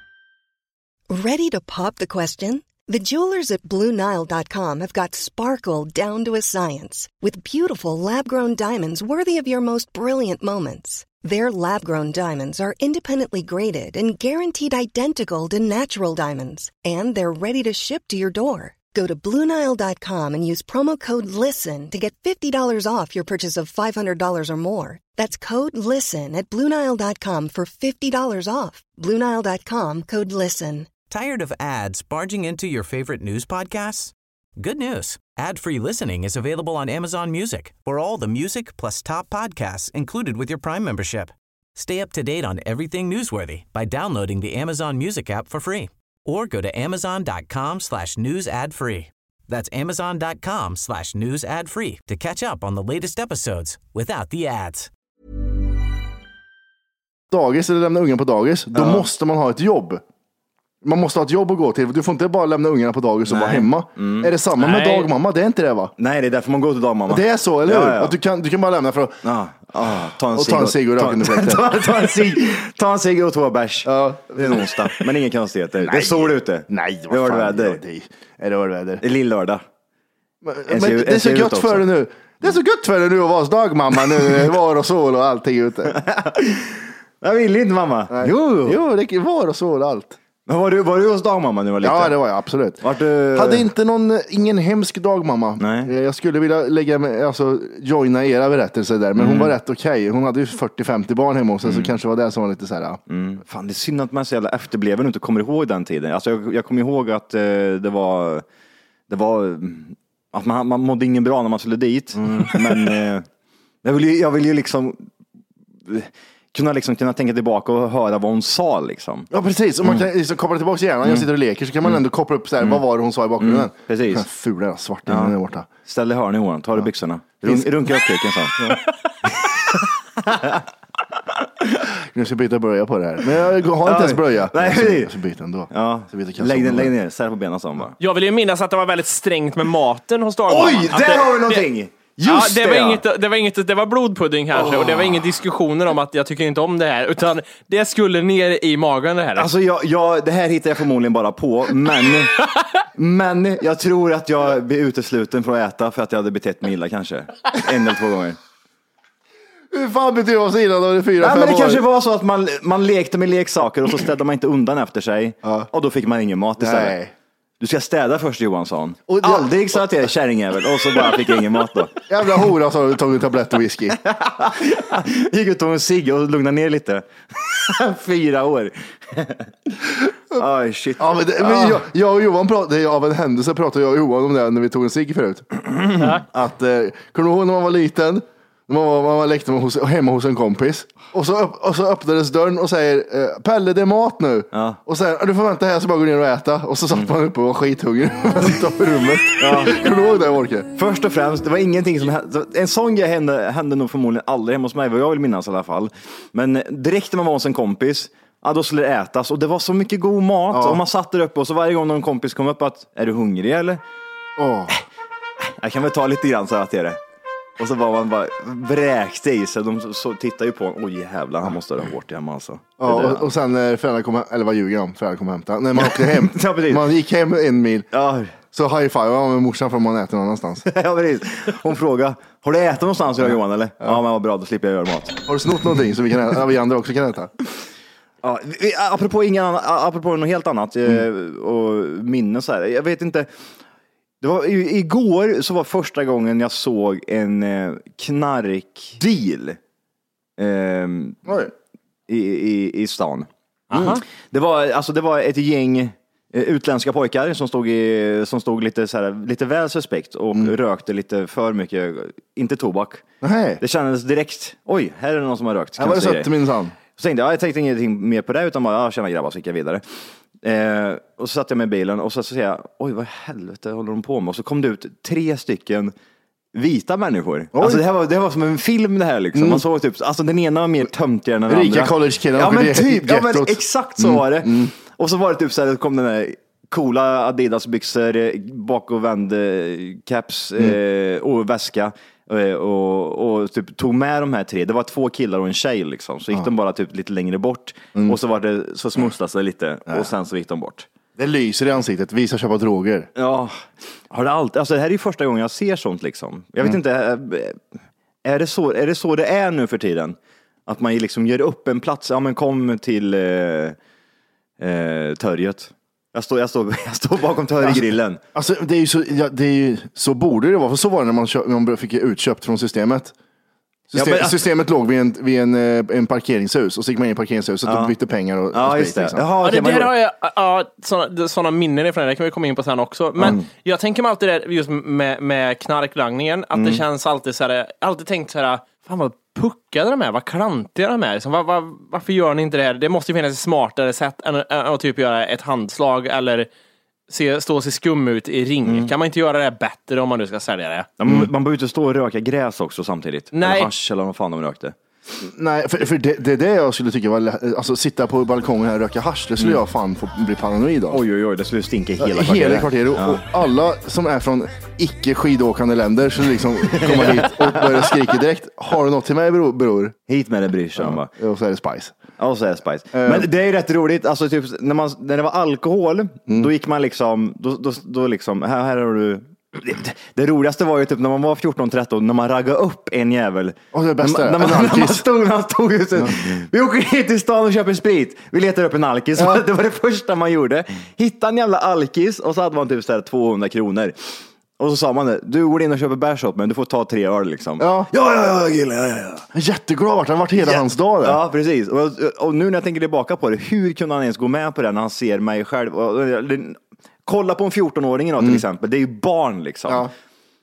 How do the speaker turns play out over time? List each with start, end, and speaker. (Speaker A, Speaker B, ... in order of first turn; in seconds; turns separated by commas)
Speaker A: 1.1-30.9, Speaker B: 31.1-54.9, Speaker C: 57.3-60.0, Speaker D: 58.7-59.1, Speaker C: 60.8-65.9, Speaker D: 63.3-64.3, Speaker E: 64.7-65.1, Speaker D: 66.0-68.2, Speaker C: 67.1-69.2, Speaker D: 69.2-77.8, Speaker C: 70.3-71.7, Speaker C: 73.8-74.9, Speaker C: 75.8-79.0, Speaker D: 79.0-79.6, Speaker C: 80.4-86.0, Speaker D: 80.7-81.9, Speaker D: 85.9-88.8, Speaker C: 88.1-90.2, Speaker D: 90.5-92.2, Speaker C: 91.8-92.8, Speaker D: 92.8-93.7, Speaker C: 93.3-103.0, Speaker D: 95.6-95.9, Speaker D: 99.2-99.5, Speaker D: 101.6-101.9, Speaker D: 103.1-108.5, Speaker D: 109.1-113.3, Speaker C: 112.2-112.9, Speaker D: 113.8-115.1, Speaker D: 115.8-119.3, Speaker C: 119.3-125.7, Speaker D: 123.4-124.3, Speaker D: 125.1-130.7, Speaker C: 127.4-127.7, Speaker D: 131.3-131.8, Speaker C: 132.1-136.9, Speaker D: 133.8-135.1, Speaker D: 135.7-138.0, Speaker E: 138.0-141.7, Speaker D: 140.5-143.0, Speaker E: 142.2-149.5, Speaker D: 144.5-145.3, Speaker D: 149.4-152.4, Speaker D: 152.9-158.4, Speaker C: 159.7-161.8, Speaker D: 161.2-167.0, Speaker C: 166.6-167.1, Speaker D: 167.6-172.0, Speaker C: 169.1-169.5, Speaker C: 172.1-174.0, Speaker D: 174.0-179.5, Speaker D: 180.3-181.8, Speaker C: 181.0-185.5, Speaker C: 186.2-200.7, Speaker D: 194.5-194.8, Speaker D: 199.4-199.8, Speaker D: 200.8-213.8, Speaker C: 210.5-210.8, Speaker C: 214.4-214.7, Speaker D: 215.4-217.0, Speaker D: 217.6-223.3, Speaker C: 222.8-227.9, Speaker D: 225.8-226.9, Speaker D: 227.9-228.3, Speaker C: 228.5-230.7, Speaker D: 230.7-235.2, Speaker C: 235.3-237.3, Speaker D: 238.2-243.3, Speaker D: 244.2-249.6, Speaker D: 250.4-251.3, Speaker C: 251.3-251.5, Speaker D: 252.1-263.1, Speaker E: 253.7-254.0, Speaker C: 263.2-263.6, Speaker D: 263.6-266.3, Speaker C: 265.8-266.8, Speaker D: 266.9-269.8, Speaker D: 270.4-275.9, Speaker D: 276.5-300.9, Speaker C: 277.5-277.8, Speaker C: 279.4-279.6, Speaker C: 281.5-284.7, Speaker C: 301.2-303.1, Speaker D: 303.1-307.6, Speaker D: 308.2-313.8, Speaker D: 314.6-318.2, Speaker C: 318.3-323.1, Speaker C: 323.9-329.3, Speaker D: 323.9-324.4, Speaker D: 327.6-327.9, Speaker D: 328.5-329.9, Speaker E: 329.4-346.5, Speaker D: 333.2-333.5, Speaker D: 336.5-336.8, Speaker E: 347.1-350.9, Speaker D: 348.6-348.9, Speaker D: 351.0-354.8, Speaker E: 353.3-353.7, Speaker C: 355.2-361.0, Speaker D: 360.9-363.2, Speaker C: 362.0-369.9, Speaker D: 366.6-368.1, Speaker D: 370.1-371.1, Speaker C: 370.8-372.0, Speaker D: 372.2-399.3, Speaker C: 372.9-373.3, Speaker C: 383.7-385.1, Speaker C: 389.2-389.4, Speaker C: 397.6-397.9, Speaker C: 399.3-401.2, Speaker D: 400.4-409.9